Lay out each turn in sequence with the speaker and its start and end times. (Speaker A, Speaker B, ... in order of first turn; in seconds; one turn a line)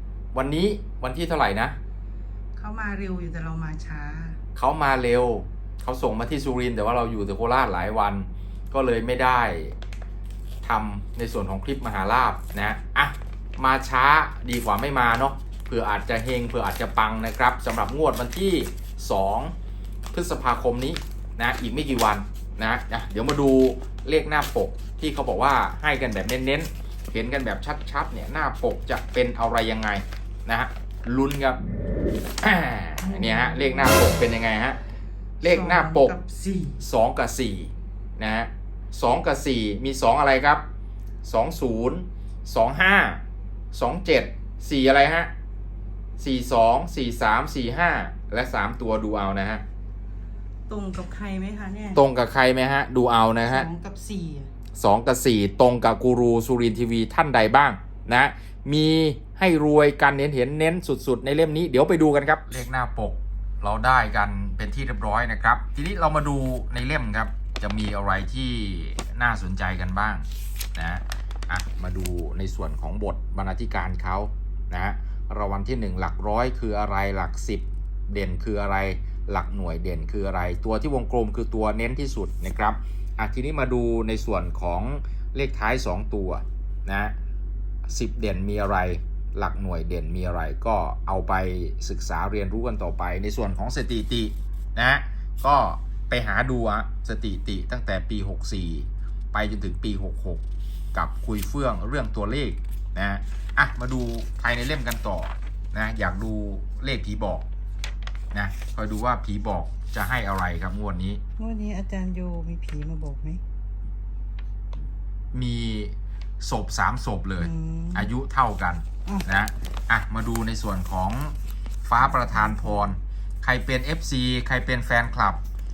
Speaker A: 0.3-1.8
Speaker B: 2.5-4.4
Speaker A: 4.5-9.8
Speaker A: 10.6-19.5
Speaker A: 20.1-31.6
Speaker A: 32.4-34.8
Speaker B: 33.0-33.9
Speaker A: 35.4-36.1
Speaker B: 35.4-36.8
Speaker A: 36.8-40.6
Speaker A: 41.2-43.2
Speaker A: 43.7-45.3
Speaker A: 46.2-49.6
Speaker B: 50.7-52.0
Speaker A: 51.9-53.7
Speaker B: 53.5-54.5
Speaker A: 54.8-87.1
Speaker A: 87.9-100.4
Speaker A: 100.9-107.5
Speaker A: 108.3-111.2
Speaker B: 111.4-113.4
Speaker A: 115.3-121.3
Speaker B: 117.4-118.1
Speaker A: 121.8-125.4
Speaker B: 122.2-122.8